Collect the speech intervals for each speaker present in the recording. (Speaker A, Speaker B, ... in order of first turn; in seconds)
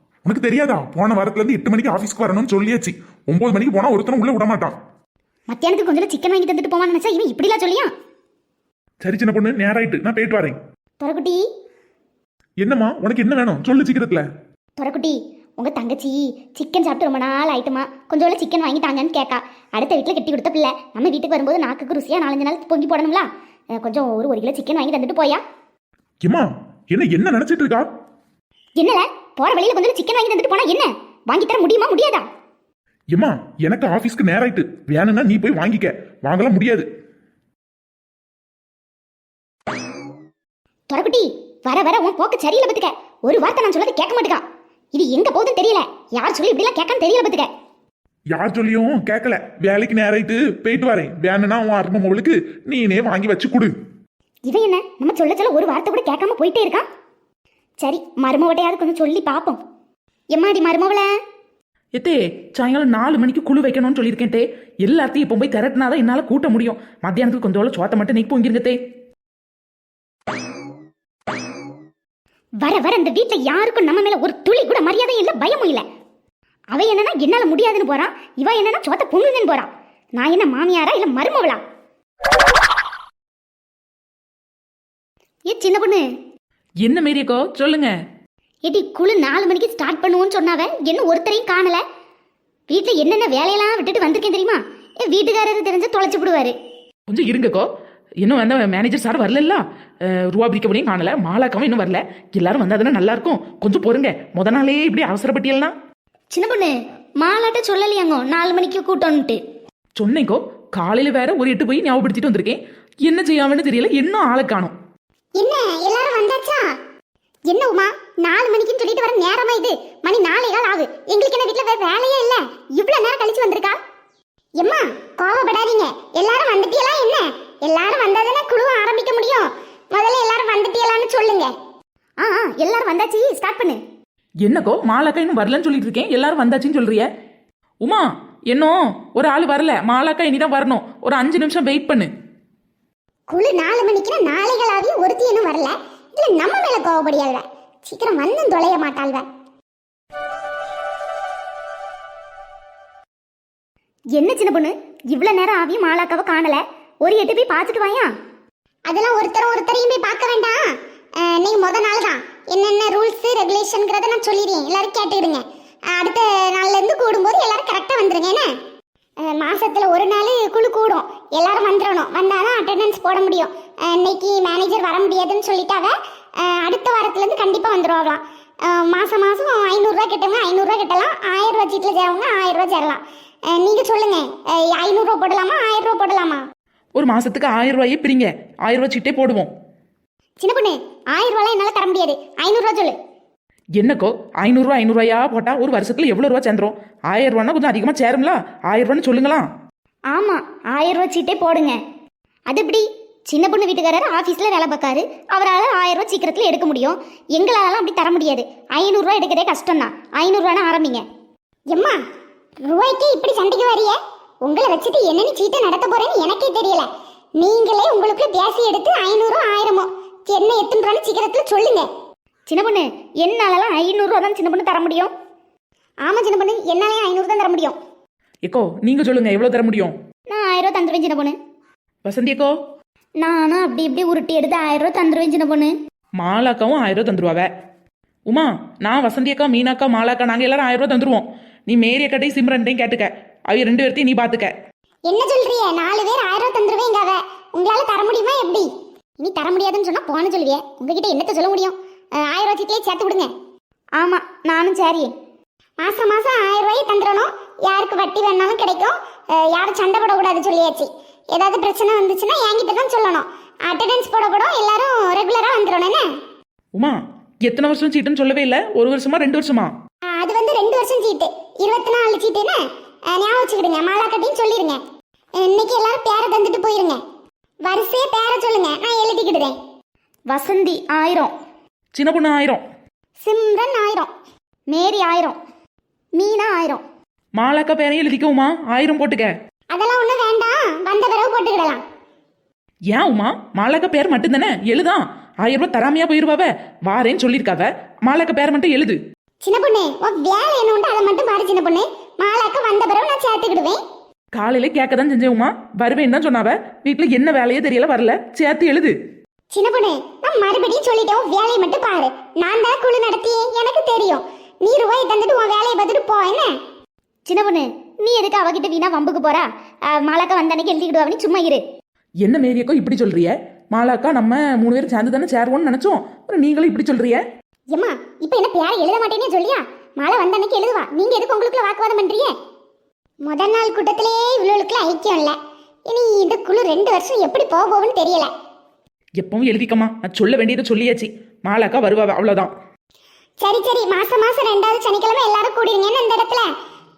Speaker A: 0.2-4.8, 9.0-10.6, 12.6-14.2, 26.2-27.8, 33.1-36.8, 48.3-53.7
Speaker B: 5.5-7.9, 11.0-11.4, 14.8-25.4, 28.8-32.2, 40.9-47.5, 54.5-56.9, 57.8-59.6, 60.3-61.1, 72.6-75.8, 76.7-81.6, 85.5-86.0, 88.6-91.8, 92.7-96.5, 106.3-109.4, 120.5-120.8, 122.8-123.7, 132.2-133.8, 154.1-158.1, 190.4-192.9, 200.1-201.8, 202.5-211.0, 222.5-225.1, 227.0-227.3, 230.3-231.3, 233.2-235.7, 249.2-251.7, 254.0-255.1, 280.3-281.3, 284.7-285.4, 286.1-286.8, 317.3-321.6, 328.2-329.6, 330.1-332.2
Speaker C: 61.9-68.8, 86.8-87.9, 97.1-97.7, 98.2-105.7, 110.0-114.7, 134.4-137.1, 137.8-142.1, 186.9-189.5, 193.8-199.5, 228.4-229.9, 232.0-232.5, 236.2-237.5, 238.3-244.5, 266.7-269.7, 281.9-282.6, 287.4-289.3, 292.9-299.0, 304.3-308.9, 322.2-327.2, 339.2-342.5
Speaker D: 115.3-116.7, 117.5-122.4, 124.6-131.5, 143.3-149.3, 158.9-160.7, 161.2-168.5, 169.2-186.4, 211.7-212.0, 212.6-221.9, 226.1-227.7, 245.1-248.7, 252.2-253.3, 255.8-266.1, 270.1-274.8, 275.4-277.0, 277.6-279.6, 283.2-284.1, 289.7-291.8, 299.4-303.8, 309.5-316.5, 327.7-328.2, 330.0-331.7, 333.2-335.4, 335.9-338.3, 343.4-346.5